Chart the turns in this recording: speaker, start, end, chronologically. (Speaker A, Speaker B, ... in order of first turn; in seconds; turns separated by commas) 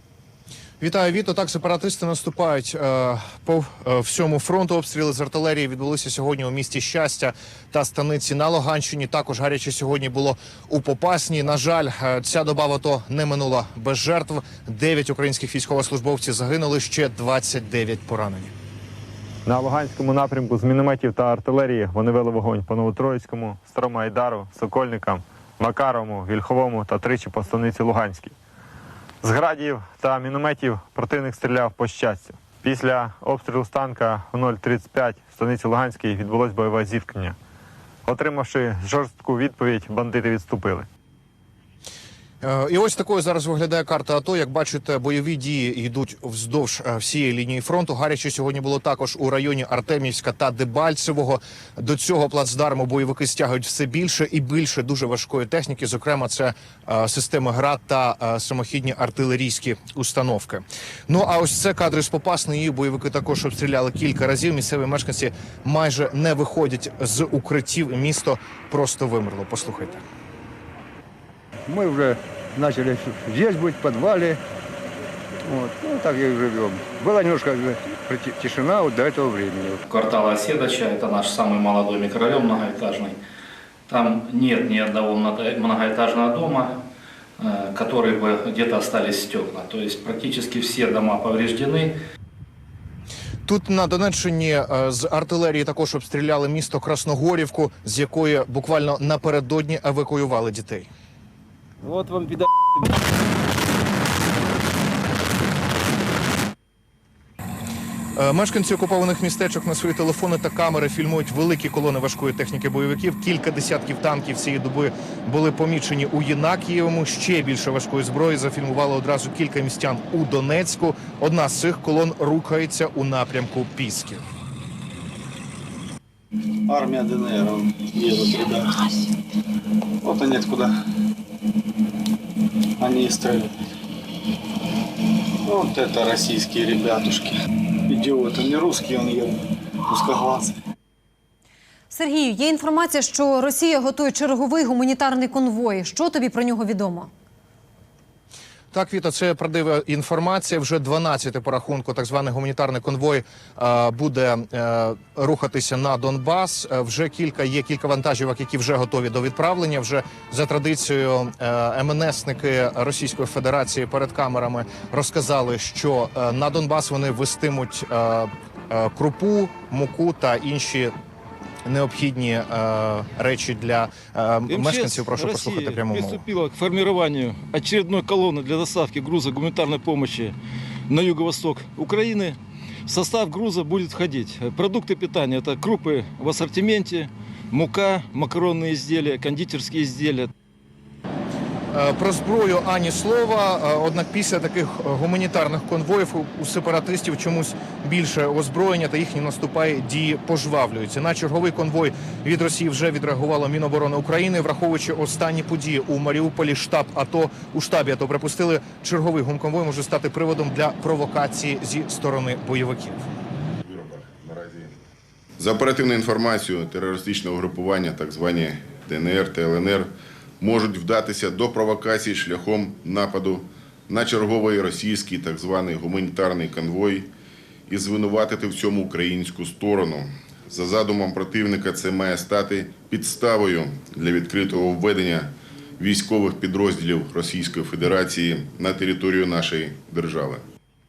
Speaker A: 0.8-18.5, Speaker B: 19.4-28.3, Speaker B: 29.2-37.4, Speaker B: 38.0-40.9, Speaker A: 42.4-70.0, Speaker C: 71.7-74.4, Speaker C: 75.4-79.8, Speaker D: 79.9-83.2, Speaker D: 83.9-86.8, Speaker D: 87.4-91.9, Speaker A: 93.5-100.9, Speaker C: 101.8-102.9, Speaker A: 108.2-124.3, Speaker E: 126.7-129.0, Speaker E: 130.0-130.8, Speaker E: 132.8-133.5, Speaker E: 135.4-137.3, Speaker E: 137.9-140.5, Speaker F: 141.9-147.1, Speaker A: 148.7-170.9, Speaker A: 171.7-176.2, Speaker G: 174.5-180.3, Speaker G: 180.9-190.3, Speaker A: 191.7-213.0, Speaker H: 213.6-214.7, Speaker H: 215.4-227.1, Speaker H: 227.7-240.4